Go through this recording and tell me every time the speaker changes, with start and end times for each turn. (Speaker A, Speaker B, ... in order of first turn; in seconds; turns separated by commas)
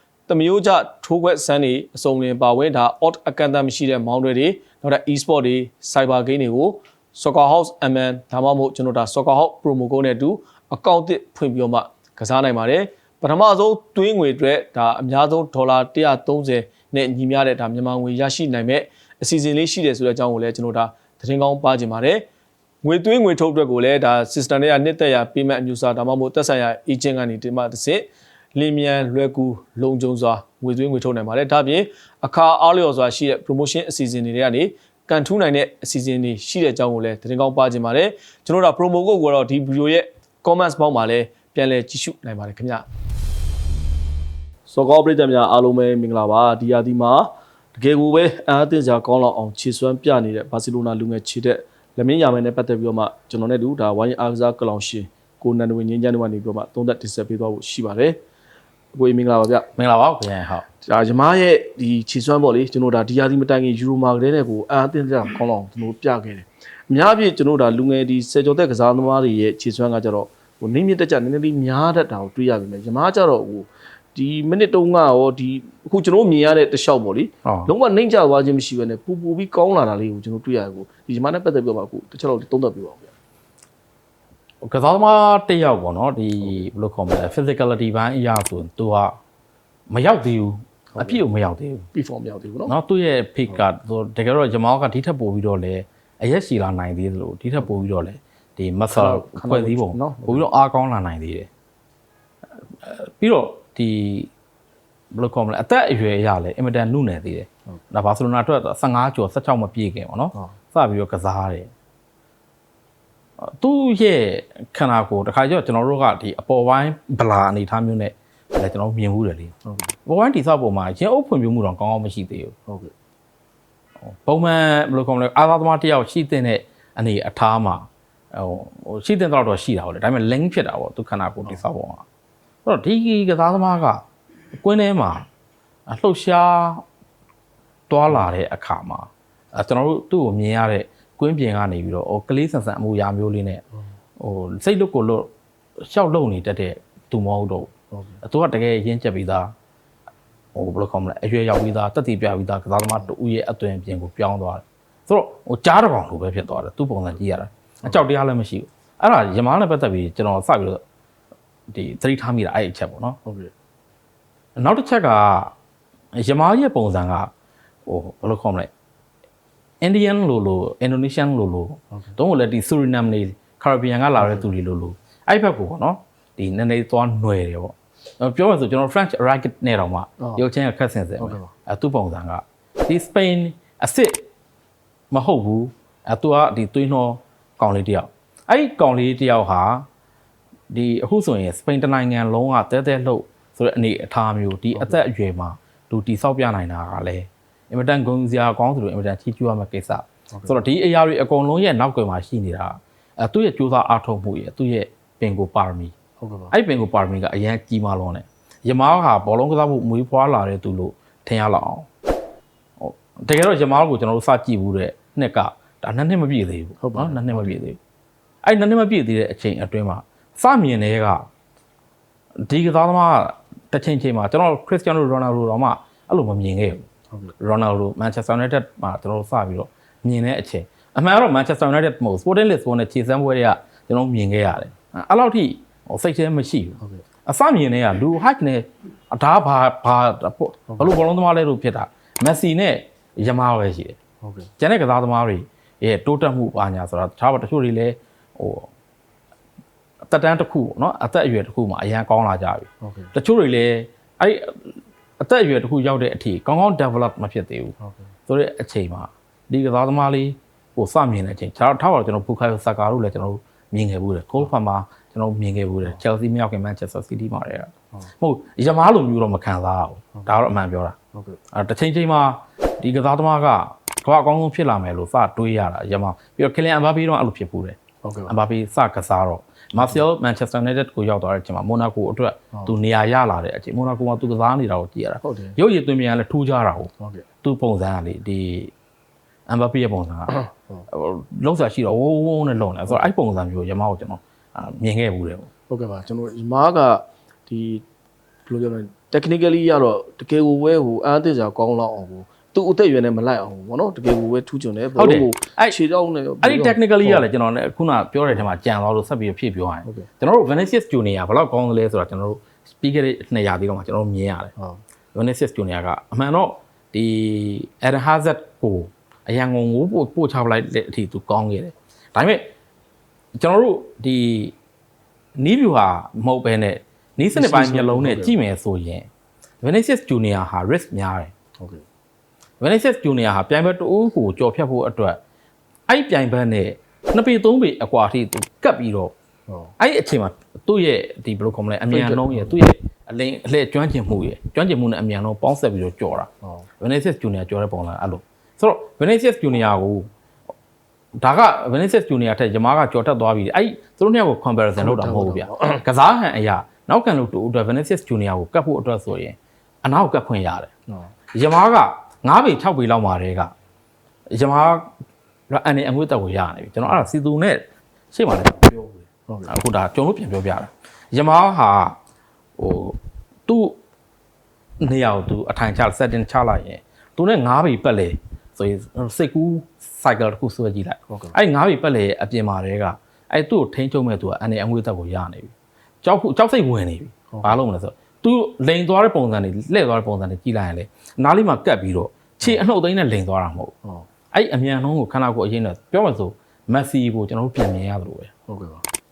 Speaker A: 0.3-22.3, Speaker A: 22.8-42.9, Speaker A: 44.7-58.2, Speaker A: 58.9-59.7, Speaker B: 59.8-60.7, Speaker A: 60.8-83.1, Speaker B: 77.5-77.7, Speaker B: 84.6-89.2, Speaker B: 89.9-91.9, Speaker A: 91.9-92.8, Speaker B: 92.7-101.5, Speaker A: 98.9-100.5, Speaker B: 102.8-104.3, Speaker B: 105.1-111.7, Speaker B: 113.5-119.5, Speaker A: 119.7-119.9, Speaker B: 120.1-122.5, Speaker B: 124.1-132.0, Speaker B: 132.7-134.0, Speaker B: 134.6-135.3, Speaker B: 135.9-136.8, Speaker B: 137.9-143.6, Speaker B: 144.2-147.7, Speaker A: 147.9-148.2, Speaker B: 148.2-149.5, Speaker B: 150.6-160.8, Speaker B: 161.7-163.2, Speaker A: 163.2-163.5, Speaker B: 164.6-165.5, Speaker B: 166.2-167.3, Speaker B: 167.9-168.7, Speaker B: 169.8-184.2, Speaker A: 174.2-174.4, Speaker A: 181.2-181.5, Speaker B: 185.1-189.9, Speaker B: 190.7-205.9, Speaker A: 200.3-200.6, Speaker A: 206.2-206.5, Speaker B: 206.5-211.9, Speaker B: 212.8-217.8, Speaker A: 216.8-217.6, Speaker B: 218.4-221.2, Speaker B: 222.5-226.8, Speaker B: 227.4-244.0, Speaker A: 244.2-244.5, Speaker B: 244.6-248.7, Speaker B: 250.1-257.8, Speaker A: 252.8-253.1, Speaker A: 257.8-258.1, Speaker B: 258.3-271.0, Speaker A: 271.1-271.4, Speaker B: 271.5-277.8, Speaker A: 278.0-278.4, Speaker B: 278.3-286.9, Speaker A: 285.2-285.6, Speaker A: 287.0-287.3, Speaker B: 287.4-288.7, Speaker B: 289.5-295.5, Speaker A: 295.7-297.9, Speaker A: 298.5-307.3, Speaker B: 305.0-305.8, Speaker B: 306.4-314.5, Speaker B: 315.1-322.4, Speaker B: 323.4-324.6, Speaker B: 325.4-329.1, Speaker A: 327.3-328.4, Speaker B: 329.6-331.3, Speaker B: 332.6-335.2, Speaker B: 335.9-339.1, Speaker A: 339.5-339.7, Speaker B: 339.8-346.3, Speaker A: 341.9-342.6, Speaker B: 346.8-350.1, Speaker B: 351.2-360.7, Speaker A: 354.8-355.8, Speaker B: 361.3-363.5, Speaker B: 364.3-364.9, Speaker B: 365.5-372.0, Speaker A: 369.3-369.5, Speaker B: 372.6-373.8, Speaker B: 374.8-393.7, Speaker A: 381.1-381.4, Speaker A: 387.3-387.6, Speaker B: 394.3-398.3, Speaker A: 398.5-398.8